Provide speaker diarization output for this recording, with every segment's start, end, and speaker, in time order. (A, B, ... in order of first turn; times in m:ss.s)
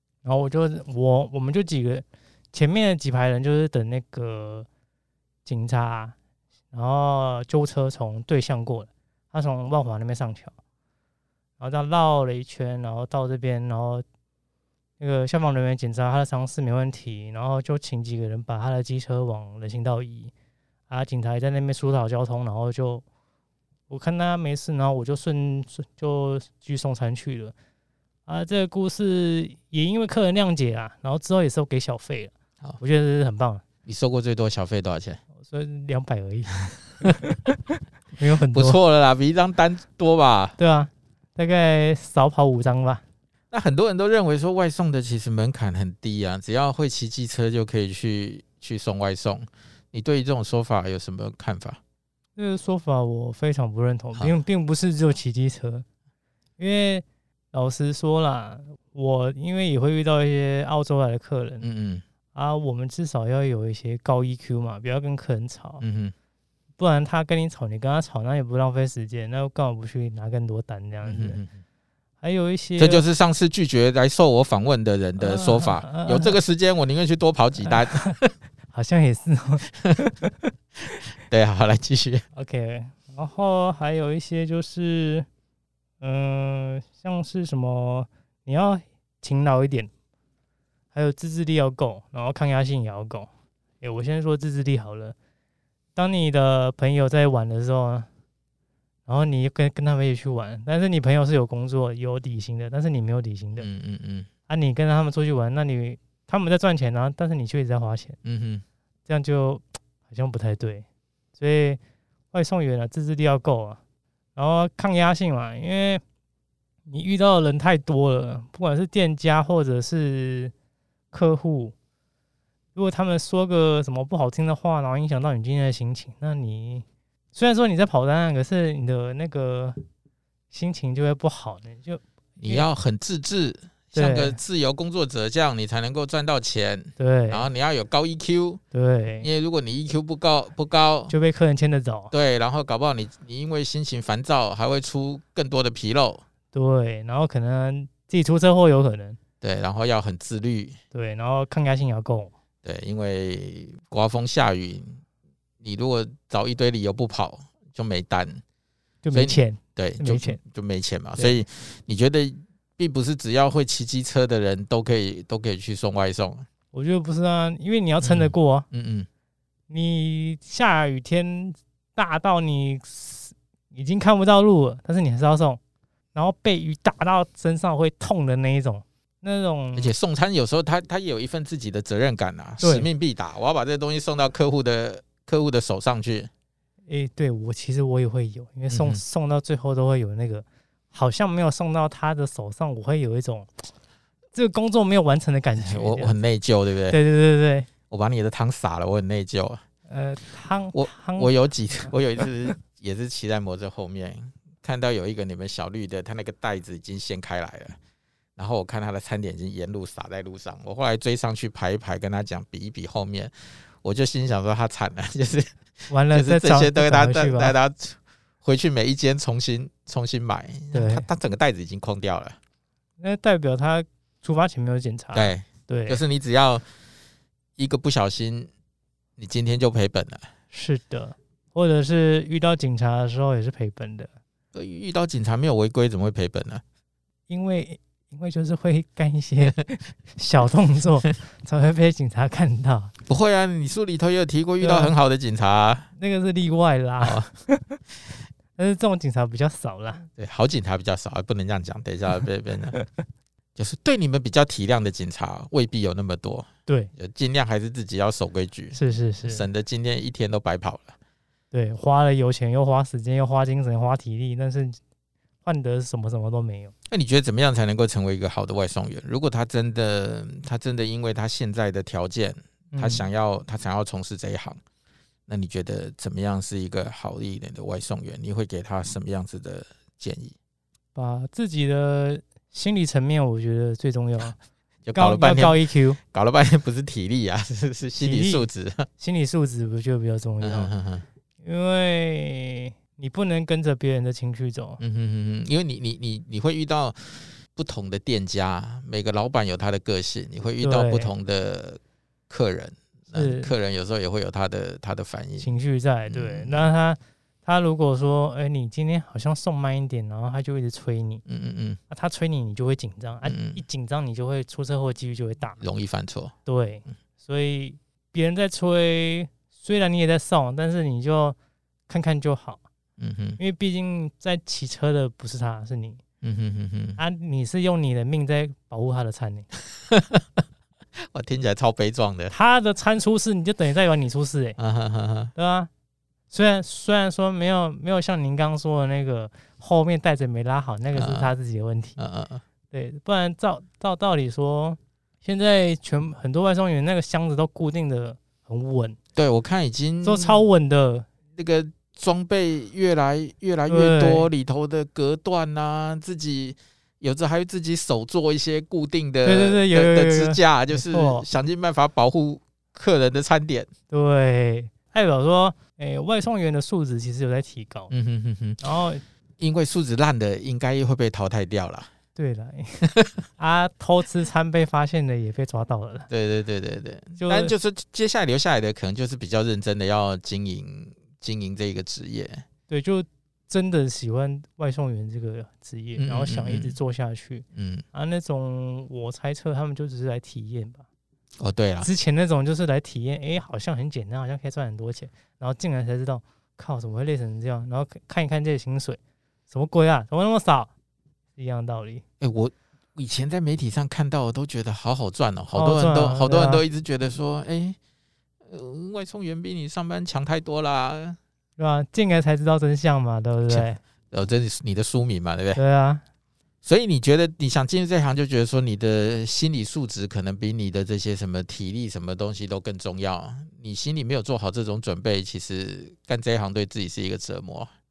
0:00.2-0:04.7 A
0:05.5-0:06.2 A
0:06.7-0:10.5 A
0:11.6-0:14.0 A
0:15.0-0:20.3 A
0:20.9-0:23.0 A
0:23.9-0:27.5 A
0:28.3-0:33.6 A
0:33.9-0:35.2 B
0:35.4-0:37.6 A
0:38.2-0:38.8 A
0:38.5-0:40.6 B
0:40.6-0:43.0 A
0:43.5-0:51.8 B
0:52.4-0:55.8 A
0:56.6-1:01.6 A
1:01.6-1:02.0 B
1:02.3-1:05.8 A
1:05.8-1:06.1 B
1:06.8-1:11.4 A
1:11.0-1:11.5 B
1:12.2-1:13.0 A
1:12.8-1:18.3 B
1:15.2-1:16.4 A
1:17.6-1:18.2 A
1:18.7-1:20.5 A
1:21.2-1:22.3 B
1:22.4-1:25.3 A
1:26.0-1:29.9 A
1:30.9-1:33.3 A
1:33.8-1:35.2 A
1:36.0-1:38.1 A
1:39.1-1:43.7 A
1:43.6-1:44.3 B
1:44.5-1:48.2 A
1:48.2-1:48.6 B
1:49.1-1:50.8 A
1:51.4-1:51.8 A
1:52.3-1:53.8 A
1:54.4-1:56.0 A
1:56.9-2:00.5 A
2:01.1-2:01.8 A
2:02.8-2:09.8 A
2:10.5-2:12.7 A
2:12.4-2:18.6 B
2:14.0-2:14.4 A
2:17.0-2:17.5 A
2:18.7-2:19.3 A
2:19.2-2:21.1 B
2:21.1-2:22.1 A
2:22.1-2:26.2 B
2:26.5-2:29.2 A
2:29.4-2:30.8 B
2:30.9-2:32.3 A
2:32.6-2:35.0 B
2:35.6-2:38.4 B
2:39.0-2:40.4 A
2:39.1-2:46.5 B
2:46.7-2:48.7 A
2:48.0-2:49.1 B
2:49.7-2:55.6 A
2:56.1-2:59.9 A
2:59.8-3:06.3 B
3:02.6-3:02.9 A
3:06.9-3:13.7 A
3:08.7-3:09.0 B
3:14.4-3:16.2 A
3:15.6-3:17.0 B
3:16.9-3:17.7 A
3:17.9-3:19.6 B
3:19.9-3:22.0 A
3:20.7-3:27.8 B
3:28.4-3:33.3 B
3:33.8-3:42.4 B
3:35.9-3:37.6 A
3:40.7-3:41.1 A
3:43.0-3:46.0 A
3:45.1-3:46.6 B
3:47.6-3:48.5 B
3:49.2-3:50.3 B
3:50.5-3:54.1 A
3:54.5-3:56.6 B
3:57.3-4:02.9 A
4:03.1-4:05.9 B
4:04.6-4:04.9 A
4:06.0-4:07.8 A
4:07.0-4:07.3 B
4:08.6-4:10.1 A
4:10.2-4:12.8 B
4:13.6-4:21.0 B
4:18.7-4:19.5 A
4:21.5-4:24.8 A
4:25.4-4:26.7 A
4:26.9-4:34.6 B
4:32.7-4:33.1 A
4:35.3-4:40.4 B
4:41.0-4:44.4 A
4:44.8-4:48.9 B
4:45.0-4:46.0 A
4:48.0-4:50.7 A
4:50.4-4:51.0 B
4:51.4-4:54.8 A
4:54.8-5:05.5 B
5:00.6-5:01.1 A
5:03.1-5:03.5 A
5:05.4-5:11.2 A
5:06.1-5:06.7 B
5:11.3-5:11.8 B
5:11.9-5:15.6 A
5:13.2-5:13.6 B
5:15.6-5:16.3 B
5:16.5-5:21.4 A
5:21.9-5:22.6 A
5:23.0-5:23.4 B
5:23.4-5:26.0 A
5:26.2-5:27.0 B
5:27.0-5:29.5 A
5:29.7-5:30.4 B
5:31.0-5:32.3 B
5:32.3-5:34.6 A
5:34.6-5:35.3 B
5:35.4-5:35.7 A
5:36.3-5:42.0 A
5:40.9-5:41.3 B
5:42.0-5:42.4 B
5:42.7-5:49.0 A
5:49.2-5:50.4 B
5:50.0-5:51.1 A
5:51.3-6:03.7 B
5:53.7-5:54.3 A
5:59.2-6:01.3 A
6:03.9-6:07.9 A
6:07.9-6:08.6 B
6:08.6-6:09.0 A
6:09.4-6:11.9 B
6:12.2-6:16.1 A
6:12.8-6:13.2 B
6:16.1-6:22.4 B
6:17.2-6:17.5 A
6:22.7-6:30.8 A
6:26.0-6:26.8 B
6:27.6-6:27.8 B
6:31.4-6:31.9 B
6:31.8-6:40.7 A
6:41.4-6:42.0 A
6:42.2-6:47.8 B
6:45.5-6:46.6 A
6:48.4-6:51.2 B
6:51.6-6:53.8 A
6:53.5-6:55.6 B
6:55.6-6:56.0 A
6:56.6-7:07.7 B